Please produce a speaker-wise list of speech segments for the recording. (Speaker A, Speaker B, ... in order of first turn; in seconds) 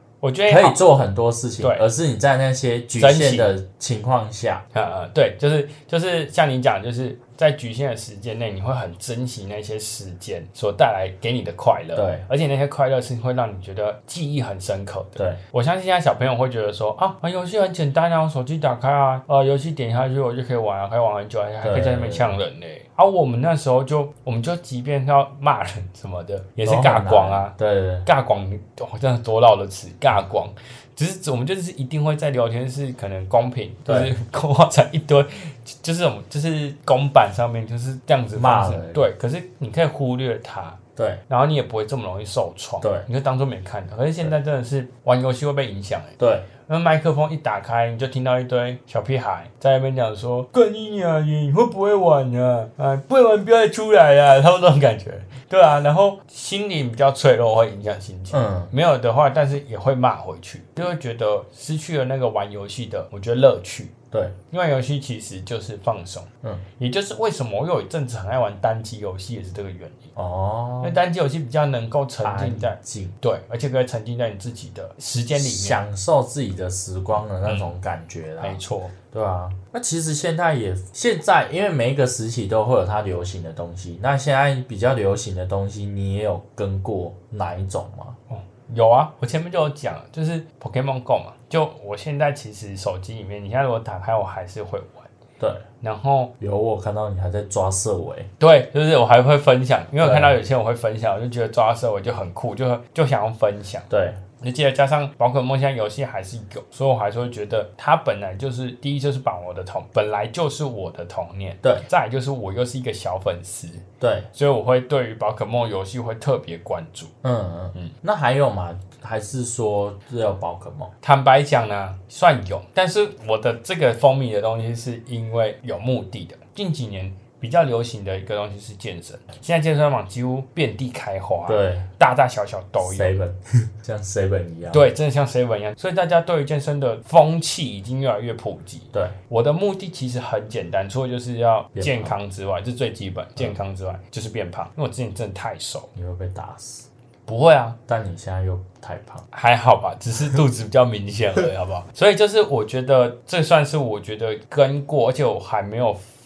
Speaker A: 0.2-0.8, 3.0-3.5, 4.7-27.5, 28.0-63.9, 64.5-66.3, 66.8-70.1, 70.8-75.8, 77.4-77.7, 78.4-78.9, 88.3-95.1, 95.8-96.3, 98.4-103.9, 104.4-117.1, 121.0-133.2, 134.7-145.9, 147.3-147.8, 149.3-156.1
Speaker B: 0.5-4.6, 11.9-12.2, 21.6-22.3, 26.6-28.1, 33.9-34.1, 38.3-39.1, 41.0-41.2, 46.2-46.5, 58.3-58.7, 70.2-71.0, 72.2-73.2, 75.3-78.6, 79.1-88.2, 96.4-98.3, 100.0-100.4, 103.9-104.2, 114.0-114.3, 117.2-120.9, 131.4-131.9, 132.8-134.9, 141.7-142.1, 145.9-146.8, 147.9-149.2